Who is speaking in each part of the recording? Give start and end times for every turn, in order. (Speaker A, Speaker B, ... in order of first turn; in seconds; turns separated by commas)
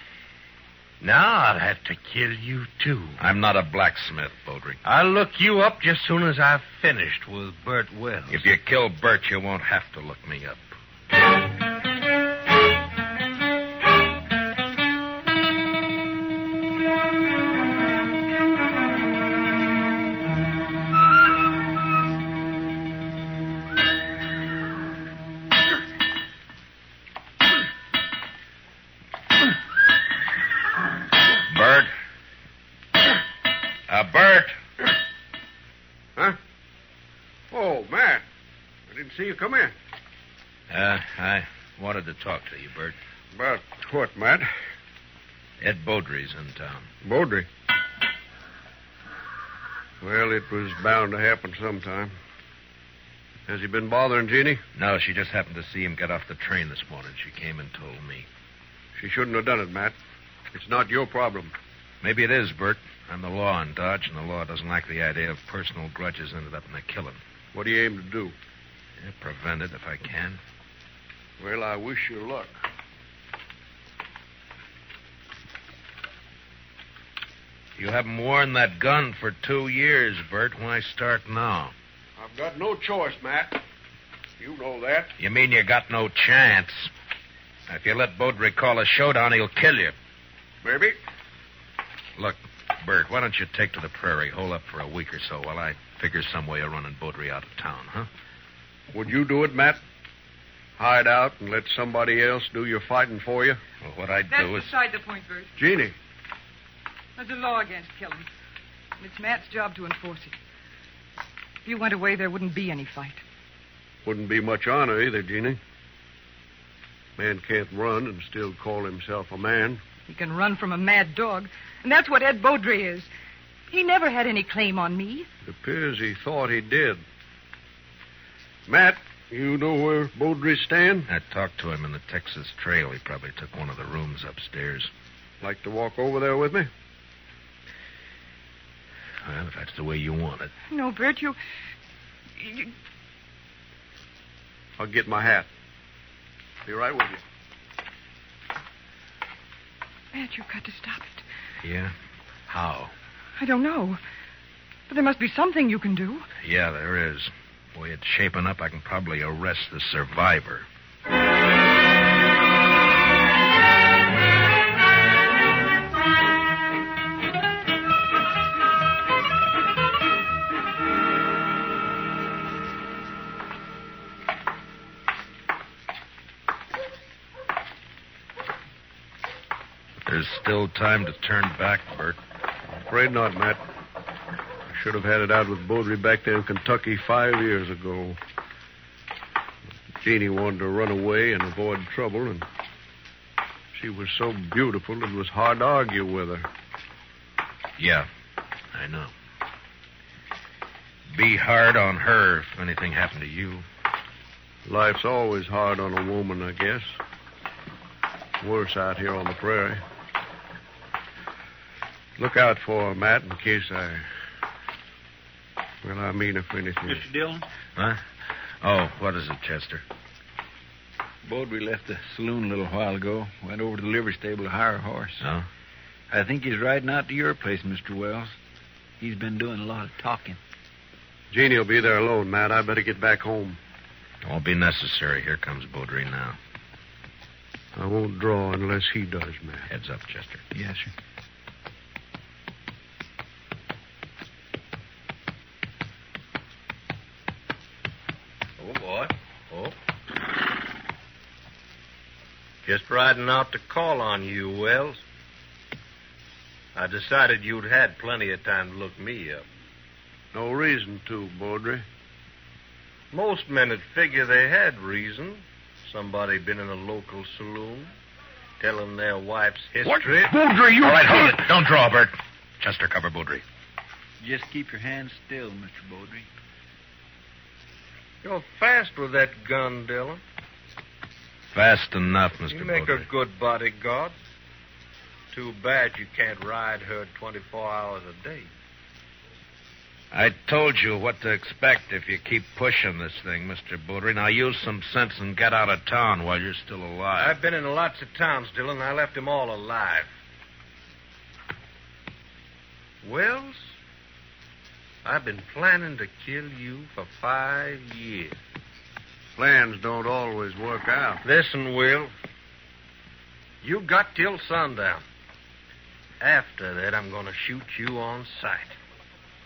Speaker A: 1.0-3.2, Speaker B: 3.2-4.8, Speaker A: 4.8-8.5, Speaker B: 8.3-10.7, Speaker B: 31.5-31.9, Speaker B: 33.9-34.5, Speaker C: 37.5-38.2, Speaker C: 38.9-39.7, Speaker B: 40.7-43.0, Speaker C: 43.3-44.5, Speaker B: 45.6-46.9, Speaker C: 47.0-47.5, Speaker C: 50.0-52.1, Speaker C: 53.5-54.6, Speaker B: 54.8-58.3, Speaker C: 59.0-59.9, Speaker C: 60.5-61.5, Speaker B: 62.0-67.2, Speaker C: 67.5-68.3, Speaker B: 69.0-70.4, Speaker C: 71.4-72.5, Speaker B: 77.8-81.7, Speaker C: 82.2-83.6, Speaker C: 84.4-85.1, Speaker B: 85.2-86.9, Speaker B: 87.7-89.9, Speaker C: 90.6-91.0, Speaker B: 92.2-98.1, Speaker C: 98.9-99.8, Speaker C: 100.8-103.6, Speaker B: 103.8-104.7, Speaker D: 104.3-105.5, Speaker C: 105.6-105.9, Speaker D: 107.2-108.3, Speaker D: 109.0-110.4, Speaker D: 111.6-113.2, Speaker C: 114.0-115.6, Speaker C: 117.2-119.8, Speaker D: 120.1-123.1, Speaker D: 123.7-125.3, Speaker C: 125.4-127.0, Speaker C: 128.7-131.1, Speaker B: 131.1-134.9, Speaker C: 135.4-136.7, Speaker B: 139.2-140.5, Speaker D: 140.7-141.4, Speaker D: 142.4-142.7, Speaker C: 144.8-145.5, Speaker C: 146.6-147.2, Speaker D: 150.1-151.2, Speaker B: 151.6-151.9, Speaker B: 152.5-152.9, Speaker D: 153.4-154.0, Speaker D: 154.9-156.3, Speaker B: 156.4-160.7, Speaker B: 180.1-182.2, Speaker C: 182.9-183.6, Speaker C: 184.7-188.2, Speaker C: 190.0-192.4, Speaker C: 193.7-196.5, Speaker B: 197.8-198.1, Speaker B: 198.7-199.1, Speaker B: 201.1-203.6, Speaker C: 204.7-206.9, Speaker C: 208.4-209.8, Speaker C: 212.2-214.0, Speaker C: 215.8-217.1, Speaker E: 216.9-217.4, Speaker B: 217.8-218.0, Speaker B: 218.6-219.8, Speaker E: 221.2-225.2, Speaker B: 225.2-225.5, Speaker E: 226.1-228.3, Speaker E: 229.0-230.4, Speaker C: 231.3-233.6, Speaker B: 234.2-236.4, Speaker C: 237.8-239.7, Speaker B: 239.7-240.4, Speaker E: 240.5-240.9, Speaker A: 248.6-249.8, Speaker A: 252.6-255.0, Speaker A: 256.7-259.4, Speaker C: 260.3-261.8, Speaker A: 263.1-267.9, Speaker A: 268.6-270.3, Speaker C: 269.8-271.5, Speaker B: 270.8-273.4, Speaker E: 274.2-276.3, Speaker A: 278.2-280.2, Speaker B: 281.5-283.1, Speaker A: 282.5-284.1, Speaker A: 285.3-288.5, Speaker B: 290.1-297.4, Speaker A: 297.2-300.1, Speaker A: 303.0-303.7, Speaker A: 305.0-308.4, Speaker C: 309.4-311.2, Speaker A: 311.2-312.1, Speaker A: 313.6-315.0, Speaker A: 316.2-318.7